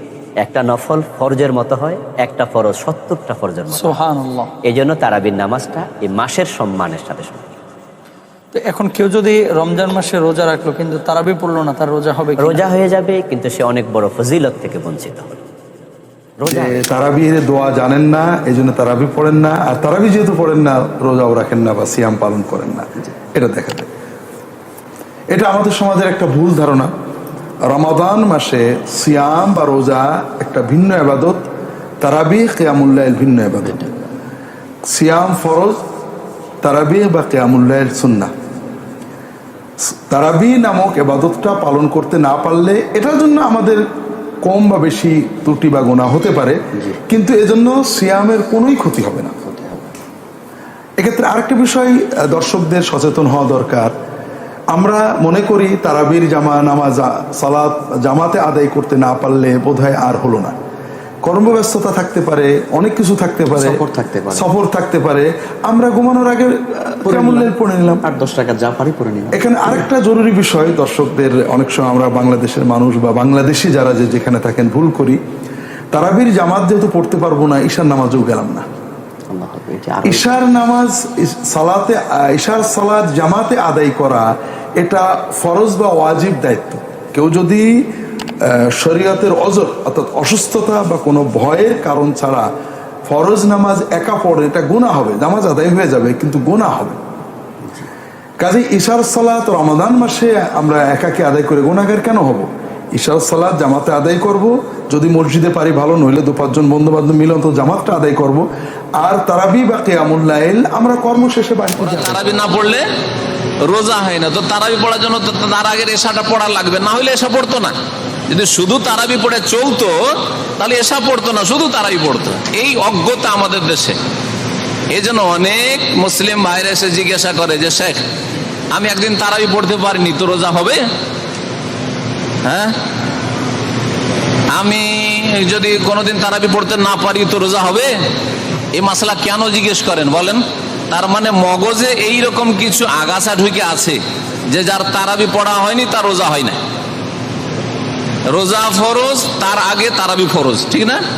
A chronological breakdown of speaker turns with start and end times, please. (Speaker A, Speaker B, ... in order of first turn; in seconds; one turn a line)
Speaker A: 0.4-4.0
Speaker B: 3.7-4.5
Speaker A: 4.6-7.6
Speaker B: 8.5-12.7
Speaker A: 12.4-15.4
Speaker A: 16.4-16.8
Speaker C: 16.4-23.9
Speaker C: 25.3-26.9
Speaker C: 27.7-31.4
Speaker C: 32.0-33.9
Speaker C: 34.9-35.8
Speaker C: 36.6-38.3
Speaker C: 40.1-43.8
Speaker C: 44.4-49.3
Speaker D: 49.5-49.9
Speaker C: 51.0-53.9
Speaker C: 54.7-60.5
Speaker C: 61.2-68.1
Speaker D: 63.6-64.4
Speaker D: 67.1-67.4
Speaker D: 68.1-69.3
Speaker C: 69.3-75.2
Speaker C: 75.9-78.6
Speaker D: 79.3-80.2
Speaker C: 80.0-84.3
Speaker C: 84.8-87.7
Speaker C: 88.8-92.5
Speaker C: 93.1-97.0
Speaker C: 98.4-108.4
Speaker C: 109.0-112.2
Speaker E: 111.8-112.8
Speaker E: 113.7-117.7
Speaker E: 118.3-120.0
Speaker E: 120.6-124.0
Speaker E: 124.9-128.0
Speaker E: 128.7-130.8
Speaker E: 132.4-132.7
Speaker E: 134.5-137.9
Speaker E: 138.7-146.6
Speaker E: 148.3-151.0